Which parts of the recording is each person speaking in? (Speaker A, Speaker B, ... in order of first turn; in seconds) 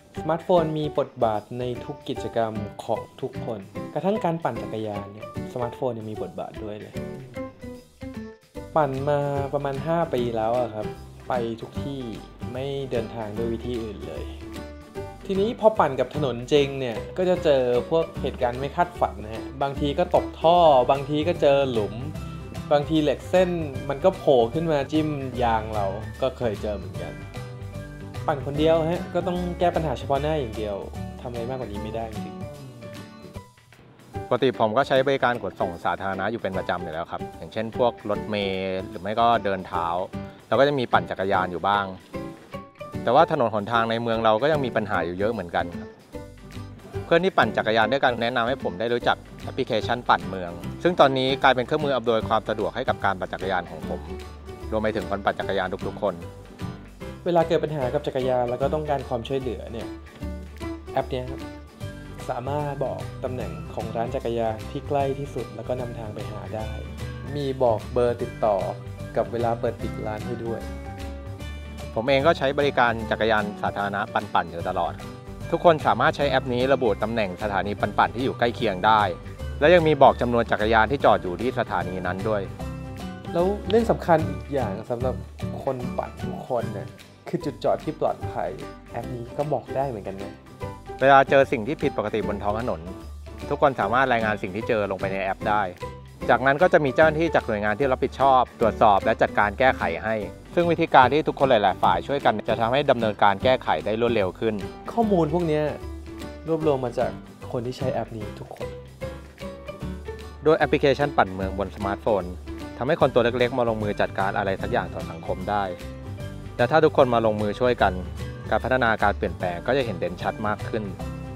Speaker A: 0.2-7.0, 8.7-14.4, 15.2-22.2, 22.7-27.2, 28.3-32.5, 57.2-59.9, 60.9-61.4, 62.2-70.7, 83.3-90.4, 104.9-105.8, 106.5-108.7
Speaker B: 34.3-42.0, 43.0-45.9, 47.1-54.2, 54.7-56.3, 71.9-82.5, 91.0-104.7, 110.4-115.8, 116.6-121.0